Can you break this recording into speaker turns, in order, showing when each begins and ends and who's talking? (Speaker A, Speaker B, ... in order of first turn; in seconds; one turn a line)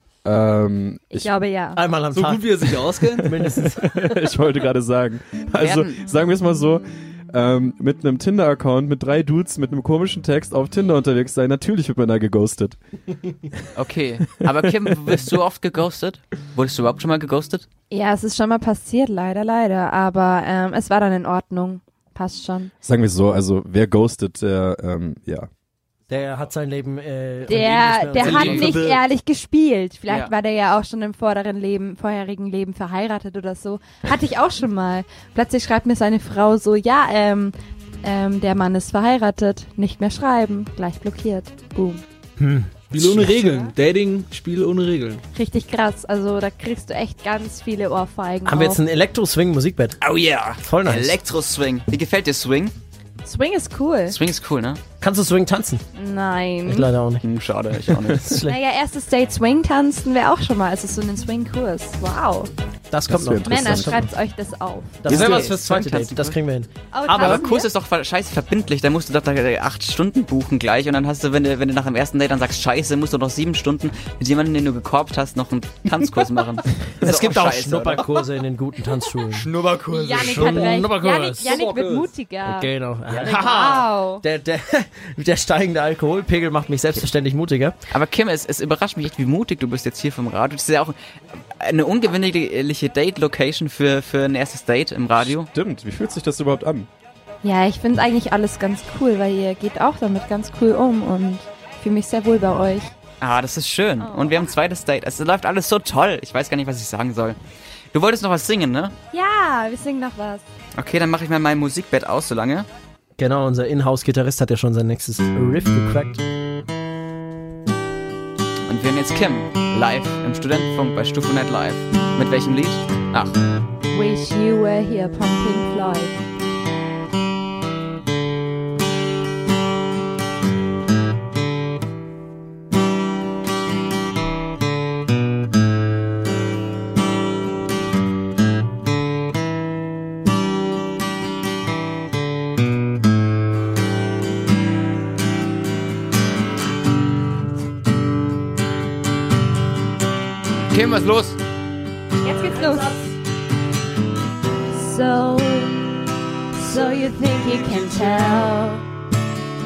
Speaker A: 0.2-1.3
Speaker B: 1.1-1.8
Speaker C: 1.8-4.1
Speaker D: 2.1-3.4
Speaker A: 3.4-12.8
Speaker E: 5.6-6.0
Speaker E: 13.8-17.7
Speaker B: 17.9-22.7
Speaker A: 22.8-25.5
Speaker C: 26.1-29.0
Speaker B: 27.5-42.0
Speaker E: 28.2-28.7
Speaker C: 42.4-43.3
Speaker D: 42.9-45.2
Speaker B: 43.2-43.7
Speaker B: 45.3-48.8
Speaker C: 48.5-50.0
Speaker E: 50.0-52.7
Speaker C: 50.6-51.2
Speaker B: 53.2-54.2
Speaker E: 54.1-54.8
Speaker C: 55.0-55.8
Speaker B: 56.0-56.9
Speaker C: 56.7-57.2
Speaker E: 57.2-58.5
Speaker C: 58.0-58.6
Speaker B: 58.5-62.5
Speaker C: 62.9-64.1
Speaker A: 63.1-64.0
Speaker B: 63.5-65.1
Speaker C: 65.0-67.5
Speaker E: 65.1-66.4
Speaker A: 65.1-65.4
Speaker B: 66.9-67.7
Speaker E: 67.2-78.1
Speaker C: 77.0-81.6
Speaker E: 79.4-80.3
Speaker B: 79.9-84.2
Speaker D: 80.2-80.8
Speaker D: 81.4-82.1
Speaker C: 82.5-87.8
Speaker E: 87.9-91.0
Speaker E: 91.6-95.5
Speaker A: 95.2-96.9
Speaker B: 97.4-102.9
Speaker E: 103.2-107.4
Speaker B: 104.0-104.5
Speaker E: 107.9-108.9
Speaker B: 109.1-110.5
Speaker E: 110.8-112.7
Speaker C: 113.2-116.2
Speaker E: 118.7-123.3
Speaker B: 123.9-126.2
Speaker E: 150.7-151.4
Speaker B: 152.2-153.0
Speaker F: 154.7-155.8
Speaker F: 156.6-158.8